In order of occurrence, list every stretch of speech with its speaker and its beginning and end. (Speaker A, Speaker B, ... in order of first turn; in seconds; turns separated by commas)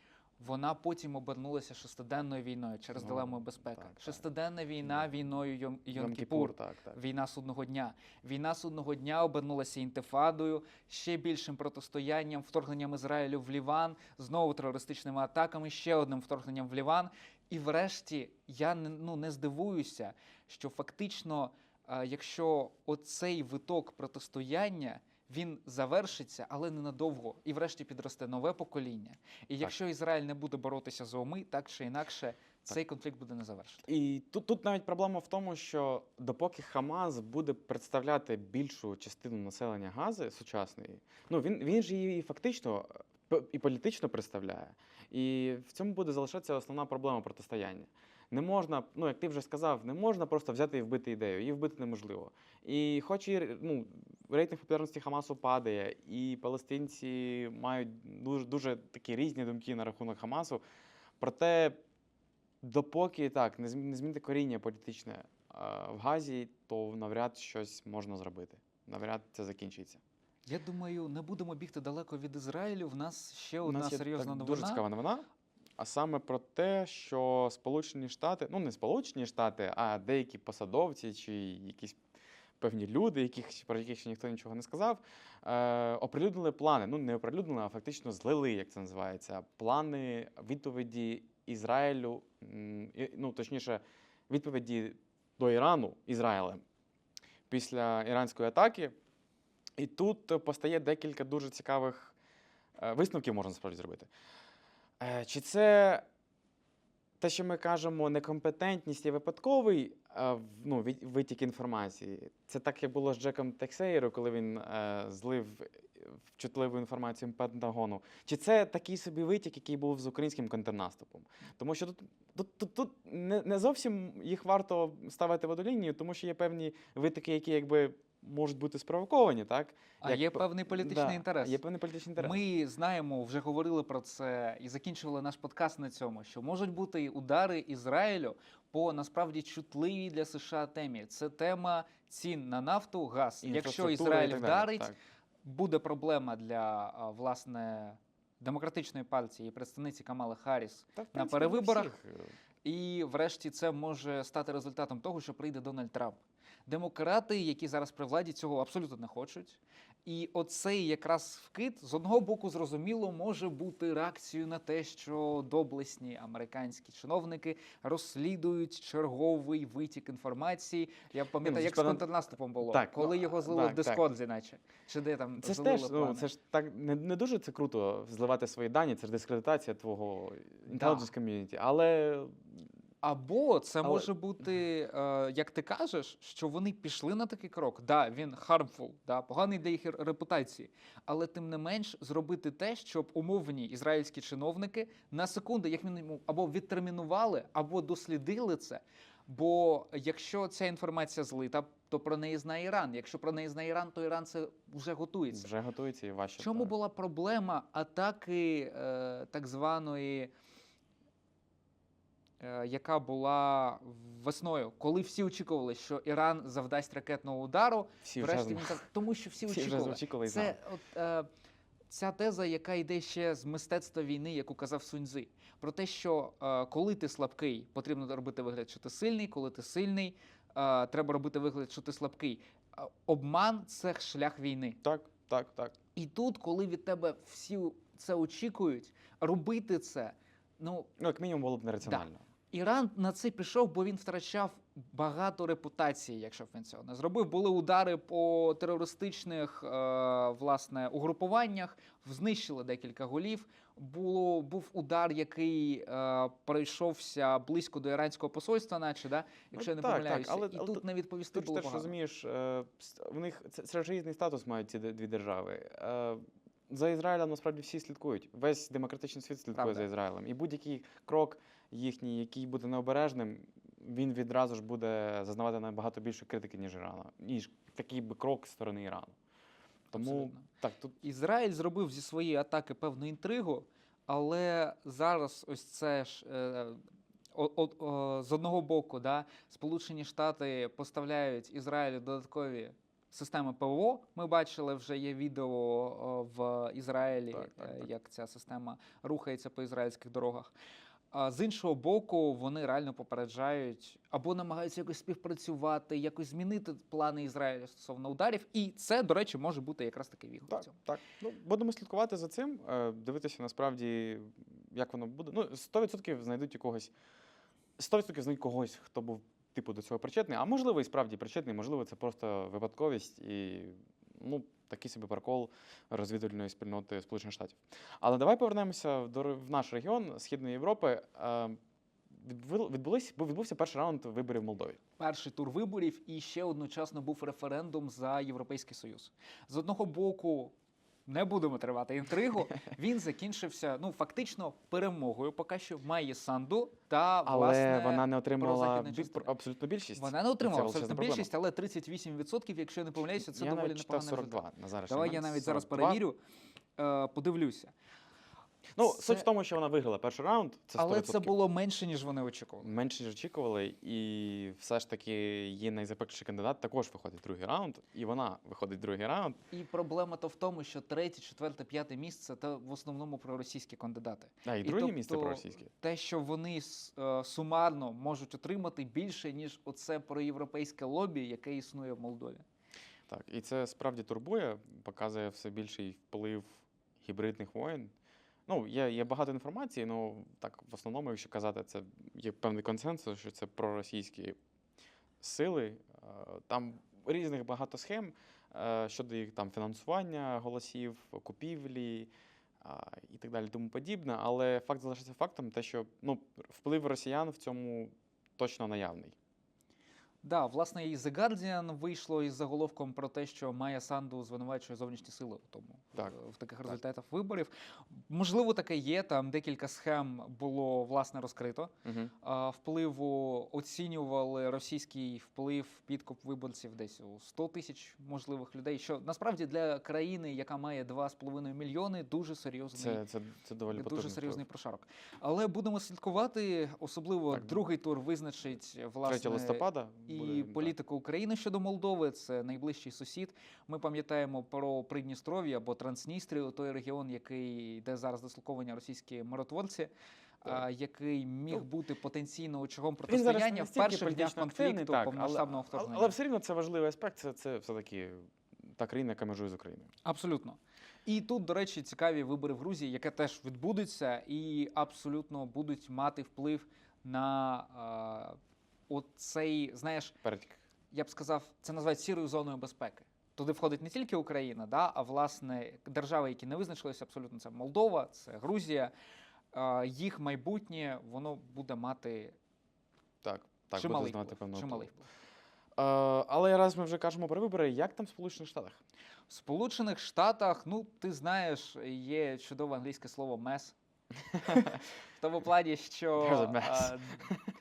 Speaker A: 0.4-33.9, Speaker B: 3.0-4.2, Speaker B: 5.9-7.0, Speaker B: 33.9-60.6, Speaker B: 61.2-61.8, Speaker B: 62.6-70.0, Speaker A: 70.5-74.8, Speaker B: 73.6-75.3, Speaker B: 75.8-82.0, Speaker B: 82.6-96.6, Speaker B: 97.5-98.9, Speaker B: 99.8-102.1, Speaker B: 102.8-104.1, Speaker B: 105.0-106.0, Speaker B: 107.2-132.4, Speaker A: 130.0-131.6, Speaker A: 132.2-144.9, Speaker B: 143.4-144.9, Speaker A: 145.4-151.9, Speaker B: 150.9-152.3, Speaker A: 152.6-176.3, Speaker B: 171.4-172.1, Speaker B: 172.6-174.0, Speaker B: 175.4-182.4, Speaker A: 180.7-181.1, Speaker A: 183.0-205.5, Speaker B: 183.8-184.1, Speaker B: 205.3-206.7, Speaker A: 206.4-210.3, Speaker A: 212.4-221.3, Speaker B: 218.0-218.8, Speaker B: 219.4-220.6, Speaker A: 221.9-234.8, Speaker B: 234.8-235.7, Speaker A: 235.9-240.9, Speaker B: 241.0-242.2, Speaker A: 241.8-261.9, Speaker B: 259.5-279.1, Speaker A: 269.5-269.9, Speaker B: 279.9-280.9, Speaker A: 279.9-280.5, Speaker A: 281.0-286.8, Speaker A: 287.3-300.5, Speaker B: 297.3-297.9, Speaker A: 301.1-310.8, Speaker B: 310.5-316.9, Speaker B: 317.8-331.6, Speaker B: 332.1-334.8, Speaker A: 335.0-340.5, Speaker A: 341.1-349.3, Speaker B: 347.2-351.3, Speaker A: 349.9-356.2, Speaker B: 353.2-356.0, Speaker A: 356.8-357.7, Speaker B: 358.8-361.3, Speaker A: 358.9-359.2, Speaker A: 360.8-362.7, Speaker B: 362.6-369.4, Speaker A: 369.5-382.4, Speaker B: 374.4-375.7, Speaker B: 383.1-387.9, Speaker B: 388.5-394.4, Speaker B: 395.2-402.1, Speaker B: 402.6-409.1, Speaker A: 410.2-433.0, Speaker B: 421.8-422.1, Speaker B: 432.7-434.4, Speaker A: 433.7-449.9, Speaker B: 437.3-437.6, Speaker B: 439.0-440.7, Speaker A: 450.4-456.1, Speaker B: 453.1-458.2, Speaker B: 458.8-459.9, Speaker A: 460.0-468.4, Speaker A: 468.9-470.2, Speaker B: 470.2-470.6, Speaker A: 470.9-478.9, Speaker A: 479.5-482.4, Speaker B: 483.2-484.9, Speaker A: 483.7-485.0, Speaker B: 485.8-488.8, Speaker A: 489.3-493.8, Speaker B: 494.4-494.8, Speaker A: 495.2-497.3, Speaker B: 496.2-497.5